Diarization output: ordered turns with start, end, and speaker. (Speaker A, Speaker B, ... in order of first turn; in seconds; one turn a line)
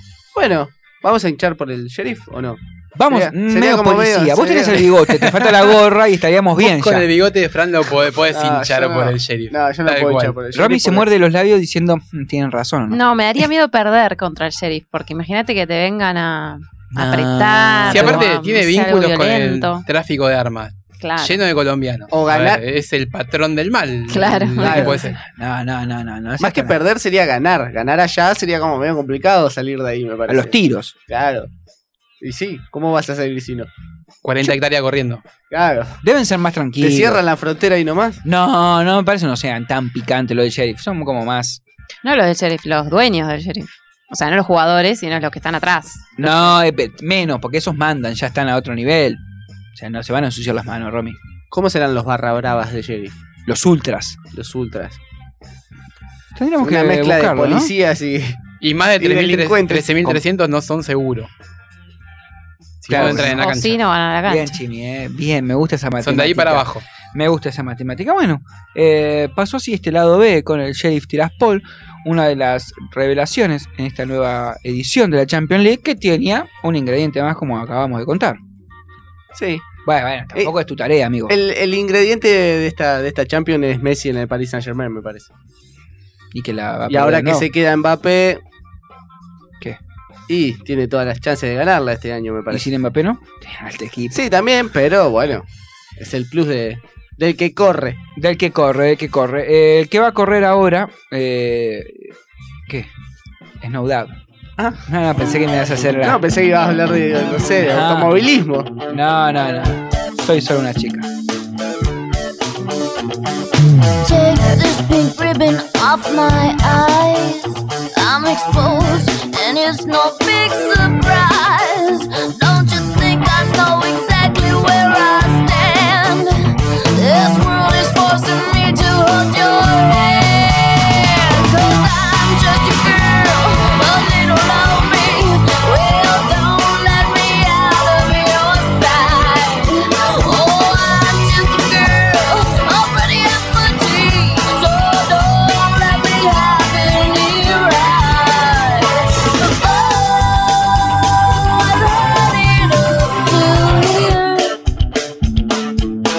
Speaker A: 0.3-4.8
Speaker B: 3.0-7.1
Speaker C: 5.3-5.7
Speaker C: 6.6-10.3
Speaker A: 8.3-11.1
Speaker B: 10.5-13.0
Speaker D: 12.9-19.9
Speaker B: 16.9-18.3
Speaker C: 17.9-25.2
Speaker D: 21.0-21.4
Speaker A: 22.1-22.6
Speaker D: 24.1-24.9
Speaker B: 24.6-26.8
Speaker A: 24.6-24.9
Speaker A: 26.4-30.6
Speaker B: 30.3-30.9
Speaker A: 31.1-31.5
Speaker A: 32.2-33.7
Speaker C: 34.2-35.2
Speaker A: 35.5-35.9
Speaker B: 36.0-37.2
Speaker A: 36.8-38.2
Speaker B: 38.2-41.6
Speaker D: 42.0-46.3
Speaker B: 46.2-49.2
Speaker B: 49.7-51.2
Speaker A: 51.5-53.2
Speaker B: 53.5-54.2
Speaker A: 54.3-55.0
Speaker B: 56.4-57.7
Speaker A: 56.6-58.4
Speaker C: 58.6-61.3
Speaker A: 59.0-60.1
Speaker C: 62.8-63.8
Speaker B: 62.9-63.5
Speaker D: 63.1-64.6
Speaker B: 64.3-78.4
Speaker C: 66.0-66.8
Speaker A: 79.3-79.6
Speaker B: 79.9-81.3
Speaker A: 81.3-85.3
Speaker B: 86.3-87.5
Speaker A: 86.9-88.4
Speaker A: 90.3-92.7
Speaker B: 92.5-94.2
Speaker A: 94.1-95.5
Speaker A: 96.0-98.0
Speaker B: 98.2-102.1
Speaker B: 103.6-104.2
Speaker B: 104.8-106.2
Speaker A: 106.0-108.7
Speaker B: 107.6-108.2
Speaker B: 108.9-111.1
Speaker E: 114.0-154.6